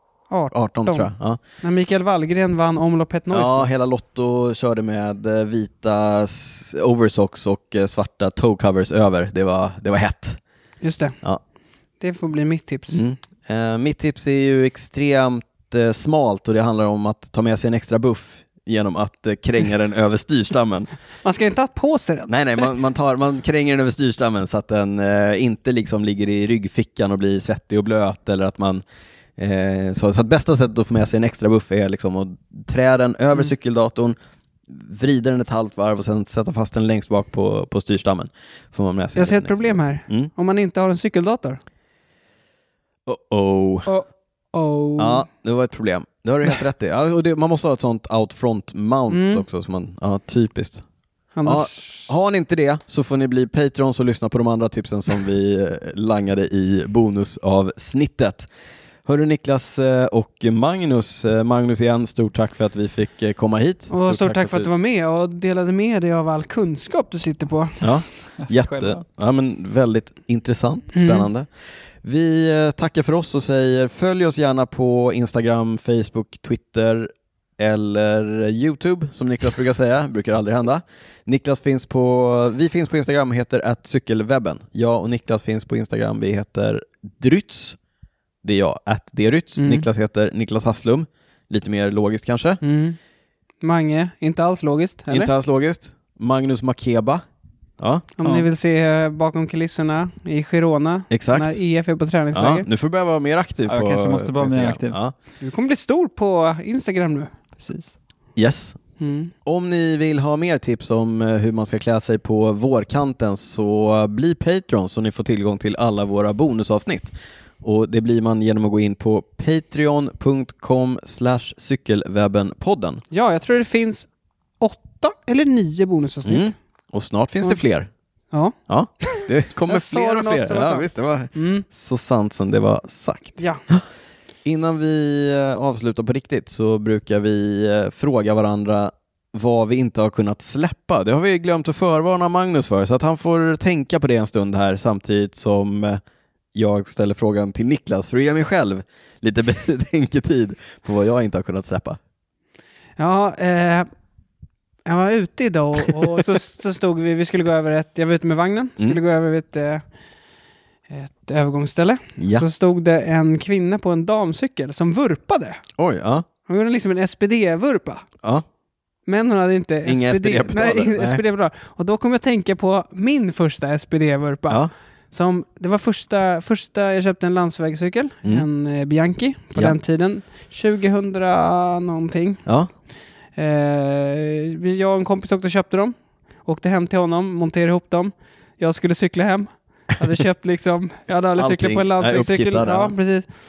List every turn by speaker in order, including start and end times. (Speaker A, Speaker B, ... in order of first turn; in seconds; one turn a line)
Speaker A: 0.3-1.1
Speaker B: 0.5-1.4
Speaker A: 1.6-3.7
Speaker B: 3.3-10.4
Speaker A: 10.8-11.2
Speaker A: 12.0-13.0
Speaker B: 12.9-20.9
Speaker A: 21.2-22.6
Speaker B: 22.3-28.8
Speaker B: 29.4-34.1
Speaker B: 34.7-40.3
Speaker A: 39.1-41.6
Speaker B: 43.0-43.9
Speaker A: 43.9-45.3
Speaker B: 45.0-50.8
Speaker A: 49.1-49.4
Speaker A: 51.3-52.0
Speaker B: 51.4-58.5
Speaker B: 59.0-64.7
Speaker A: 63.9-67.9
Speaker B: 67.8-71.5
Speaker C: 68.5-69.0
Speaker A: 70.9-71.3
Speaker B: 72.0-87.8
Speaker B: 88.4-92.6
Speaker A: 89.6-89.9
Speaker A: 92.6-93.0
Speaker A: 93.6-95.3
Speaker B: 95.1-97.2
Speaker B: 97.8-98.0
Speaker A: 98.2-102.7
Speaker B: 101.1-101.6
Speaker B: 102.3-105.1
Speaker C: 103.7-105.0
Speaker A: 105.4-107.3
Speaker C: 107.6-107.9
Speaker B: 108.3-108.8
Speaker A: 109.0-109.3
Speaker B: 109.4-123.0
Speaker A: 123.1-124.1
Speaker A: 124.6-126.5
Speaker B: 126.2-127.9
Speaker A: 128.3-131.6
Speaker B: 128.7-133.8
Speaker B: 134.4-146.0
Speaker B: 146.5-152.0
Speaker A: 153.0-153.9
Speaker A: 154.8-159.8
Speaker A: 160.9-165.6
Speaker B: 162.2-162.4
Speaker B: 165.8-166.2
Speaker A: 166.4-168.0
Speaker A: 169.1-182.4
Speaker B: 169.8-171.2
Speaker A: 183.3-193.3
Speaker B: 191.4-192.9